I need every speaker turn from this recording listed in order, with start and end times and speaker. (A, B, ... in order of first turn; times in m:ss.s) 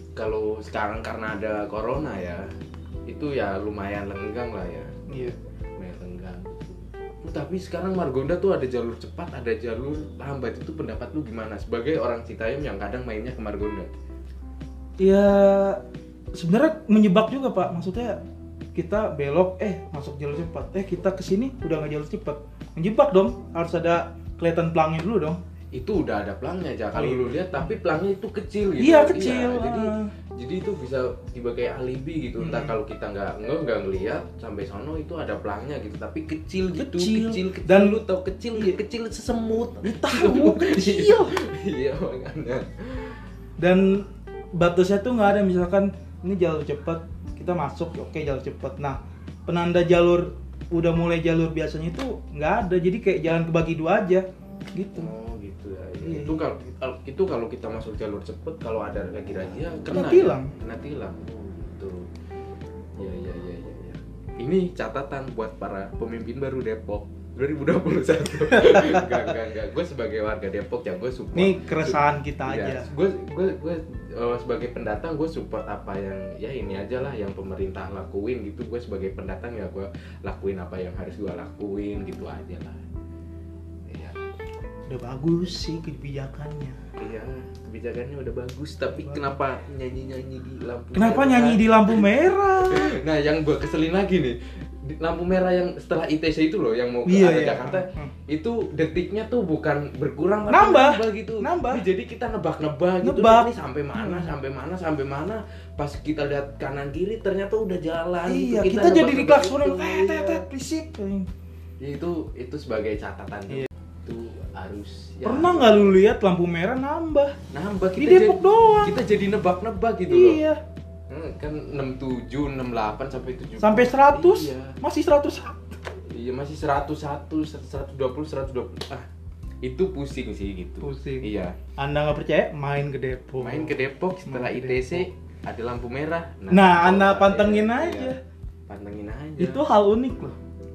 0:00.2-0:02.5 A
0:03.1-0:04.9 A
0:05.1-0:05.4 B
0:05.8-0:13.9 A
0:15.0-0:15.8 B
0:16.3-0:18.2 B
0:18.7-0:25.4 B
0:25.7-0:43.1 A
0:26.9-0:27.6 B
0:28.8-0:30.1 B
0:32.4-0:32.8 B
0:36.8-0:38.0 B
0:38.5-0:38.8 B
0:39.8-0:41.3 B
0:43.6-0:55.1 B
0:54.9-1:02.1 A
0:56.0-0:56.5 B
0:59.9-1:00.5 B
1:03.0-1:22.8 A
1:11.3-1:12.9 B
1:23.9-1:24.2 A
1:24.9-1:26.8 B
1:27.0-1:32.1 A
1:29.0-1:29.2 B
1:30.9-1:32.9 B
1:32.6-1:50.4 A
1:37.0-1:38.1 B
1:40.5-1:41.8 B
1:43.0-1:44.3 B
1:48.3-1:51.3 B
1:51.8-1:56.0 A
1:55.2-1:57.3 B
1:57.5-2:00.4 A
1:58.0-1:59.0 B
2:00.1-2:00.6 B
2:01.1-2:04.7 A
2:03.6-2:05.8 B
2:06.1-2:09.1 A
2:09.6-2:11.6 A
2:10.8-2:15.1 B
2:13.4-2:18.1 A
2:16.5-2:18.2 B
2:18.7-2:19.6 A
2:19.4-2:20.4 B